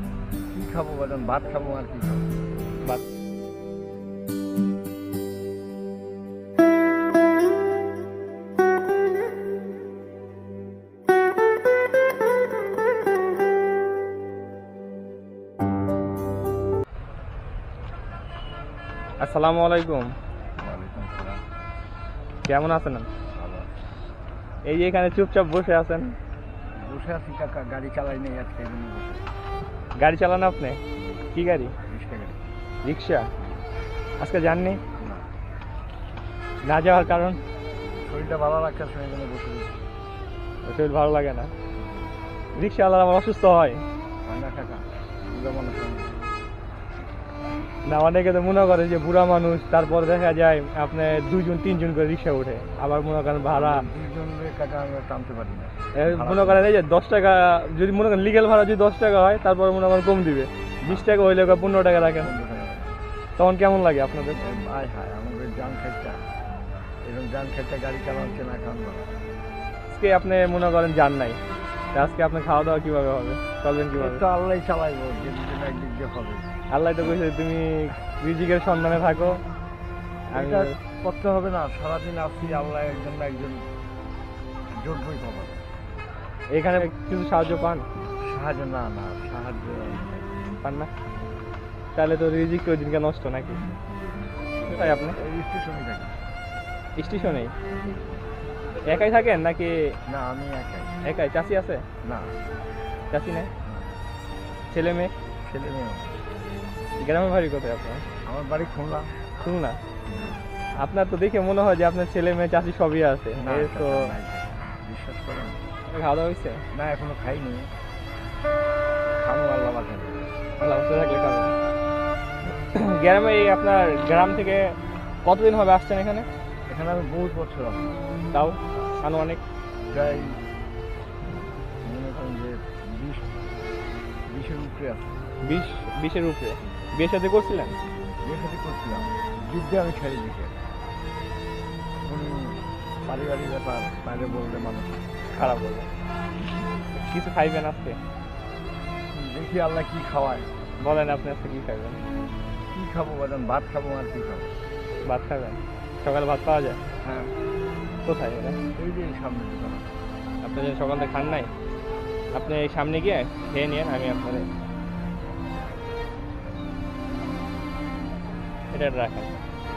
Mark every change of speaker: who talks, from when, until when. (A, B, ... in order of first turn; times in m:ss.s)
0:00.5-0:02.4 A
0:19.2-0:20.1 B
0:20.6-0:21.4 A
0:22.4-0:23.1 B
0:23.3-0:23.9 A
0:24.6-0:26.2 B
0:26.8-0:29.2 A
0:30.0-0:30.8 B
0:31.3-0:31.7 B
0:31.9-0:32.4 A
0:32.8-0:33.3 B
0:34.2-0:34.8 B
0:35.0-0:35.3 A
0:36.6-0:37.4 B
0:38.0-0:39.8 A
0:40.6-0:41.5 B
0:42.6-0:43.8 B
0:44.2-0:46.2 A
0:47.9-0:53.9 B
0:53.5-0:56.7 A
0:56.0-1:02.3 B
1:00.8-1:01.1 A
1:02.2-1:03.0 A
1:03.4-1:04.4 B
1:04.4-1:06.2 A
1:07.0-1:09.1 A
1:09.9-1:11.4 B
1:11.9-1:14.2 B
1:13.9-1:16.6 A
1:16.7-1:19.4 B
1:20.3-1:20.8 B
1:20.3-1:23.6 A
1:24.8-1:25.6 A
1:26.5-1:27.9 B
1:28.2-1:30.3 A
1:30.6-1:30.9 B
1:32.0-1:33.6 B
1:34.7-1:35.2 B
1:34.7-1:36.2 A
1:37.0-1:37.5 B
1:38.8-1:40.0 B
1:40.1-1:40.9 A
1:41.0-1:41.8 B
1:42.0-1:42.4 A
1:43.1-1:43.5 B
1:44.7-1:45.1 B
1:45.4-1:46.2 A
1:47.0-1:48.0 B
1:48.3-1:49.2 A
1:49.4-1:49.8 B
1:50.1-1:50.4 A
1:50.8-1:54.1 B
1:53.4-1:55.6 A
1:55.9-1:56.6 B
1:56.7-1:57.7 A
1:59.1-2:00.4 A
2:00.6-2:01.5 B
2:02.7-2:06.3 B
2:06.7-2:08.1 A
2:08.3-2:09.4 B
2:09.9-2:10.4 A
2:11.8-2:13.3 A
2:14.3-2:15.2 A
2:15.4-2:17.7 B
2:18.2-2:20.6 A
2:22.1-2:25.5 A
2:25.3-2:25.9 B
2:26.9-2:28.0 B
2:29.1-2:30.5 A
2:30.8-2:32.0 B
2:32.7-2:34.5 A
2:35.0-2:36.8 B
2:37.0-2:37.3 A
2:38.0-2:38.6 B
2:38.8-2:39.9 A
2:40.4-2:41.5 B
2:42.3-2:44.5 B
2:48.7-2:49.3 B